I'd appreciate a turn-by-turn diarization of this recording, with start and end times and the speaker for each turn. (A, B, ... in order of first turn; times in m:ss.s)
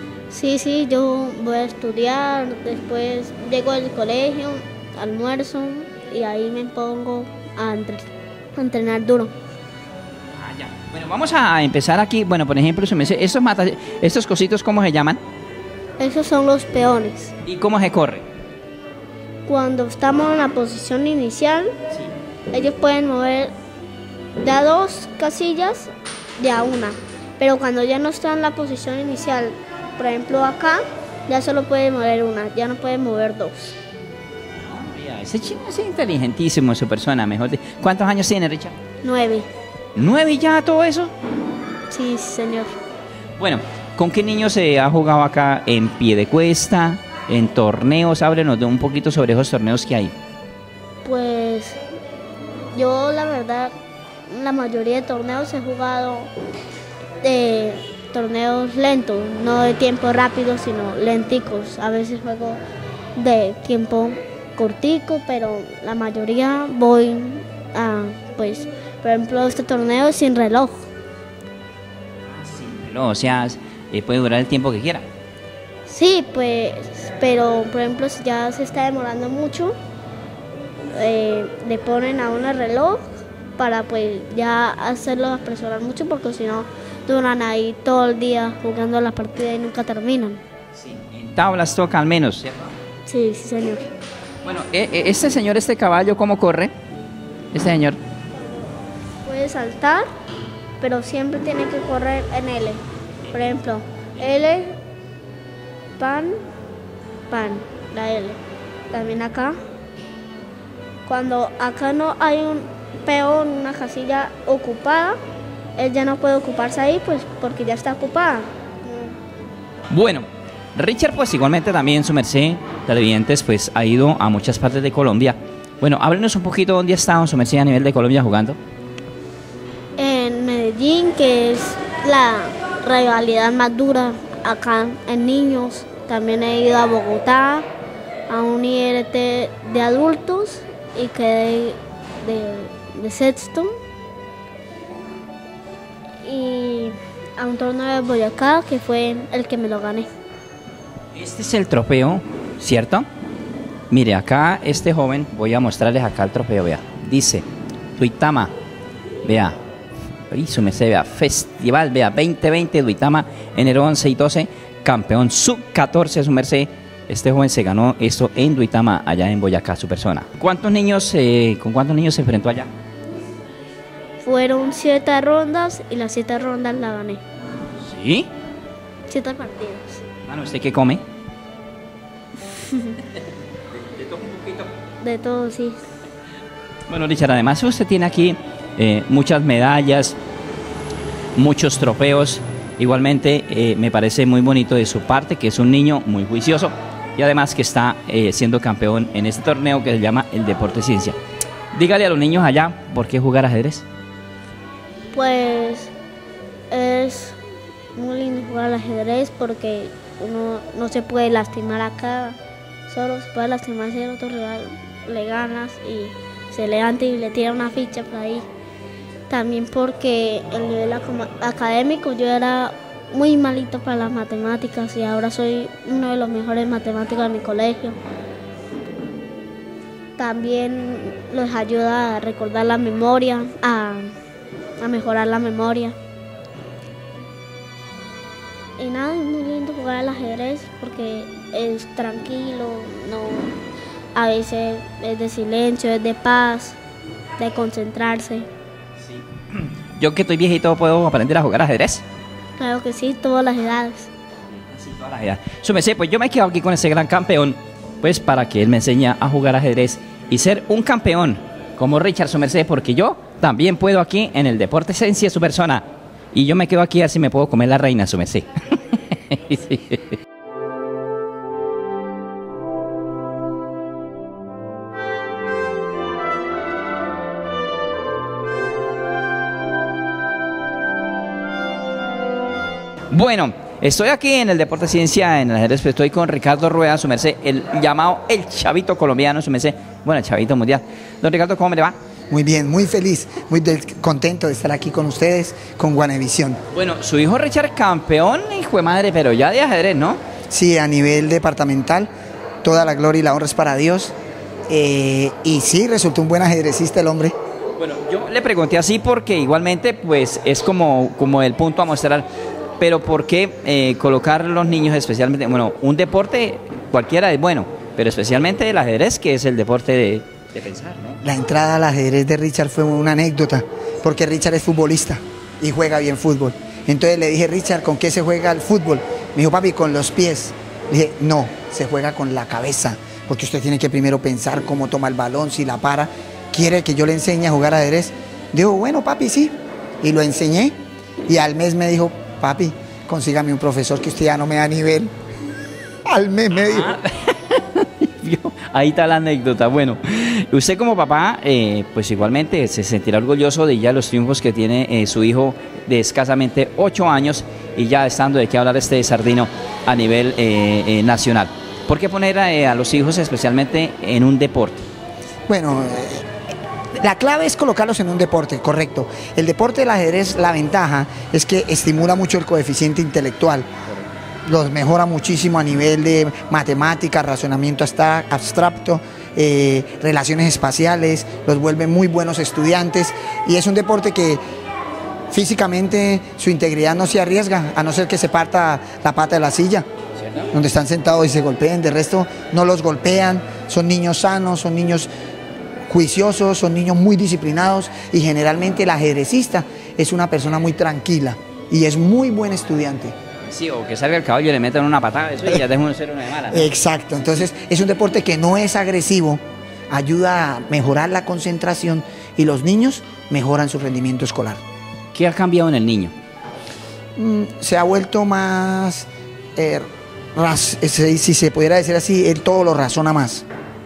0:00.3-0:09.3 A
0:10.4-0:15.2 B
0:16.0-0:17.3 A
0:17.4-0:18.2 B
0:19.5-0:21.7 A
0:22.5-0:23.5 A
0:24.4-0:33.8 A
0:34.6-0:38.7 B
0:39.0-0:39.5 A
0:40.0-0:41.1 B
0:41.9-0:42.8 A
0:43.4-0:50.1 B
0:51.0-0:51.8 A
0:52.7-0:53.7 A
0:54.3-0:56.3 A
0:57.2-1:02.6 A
1:03.2-1:10.9 A
1:12.4-1:15.1 B
1:15.9-1:19.8 A
1:20.9-1:30.4 A
1:30.8-1:32.7 B
1:33.1-1:33.9 A
1:34.4-1:36.7 B
1:37.5-1:38.0 B
1:39.2-1:40.1 A
1:40.8-1:44.8 A
1:46.0-1:46.4 A
1:47.3-1:48.4 A
1:48.9-1:49.6 A
1:51.1-1:55.2 A
1:55.8-1:59.2 A
1:59.9-2:08.6 B
2:10.0-2:17.6 A
2:18.3-2:23.7 A
2:26.2-2:30.1 A
2:31.1-2:33.1 B
2:33.9-2:37.4 B
2:38.0-2:38.5 B
2:39.2-2:39.6 B
2:40.3-2:52.7 B
2:54.2-2:57.2 A
2:57.8-2:58.3 B
2:59.1-3:00.0 A
3:00.3-3:01.0 B
3:03.7-3:04.7 B
3:05.0-3:05.8 A
3:06.9-3:10.2 B
3:11.4-3:21.2 B
3:21.7-3:23.8 B
3:25.1-3:25.9 A
3:26.7-3:27.4 A
3:28.0-3:32.4 A
3:32.9-3:38.5 A
3:39.3-3:48.0 A
3:50.2-3:54.2 A
3:54.8-3:56.0 A
3:58.8-4:03.5 A
4:04.2-4:06.8 A
4:07.4-4:08.5 A
4:09.1-4:12.0 B
4:12.6-4:14.1 A
4:14.5-4:30.2 B
4:43.1-4:52.0 B
4:52.3-4:56.6 C
4:56.7-5:00.2 B
5:00.5-5:02.1 C
5:02.6-5:04.1 C
5:04.7-5:07.4 C
5:07.8-5:12.3 B
5:12.8-5:21.2 B
5:21.2-5:45.1 C
5:46.1-5:47.0 C
5:46.6-6:04.9 B
6:05.5-6:06.3 C
6:06.9-6:13.7 C
6:14.4-6:24.4 C
6:25.3-6:29.9 C
6:30.5-6:35.1 C
6:35.9-6:43.2 C
6:43.5-6:46.7 B
6:46.5-6:54.6 C
6:55.1-6:56.1 B
6:57.2-7:03.4 C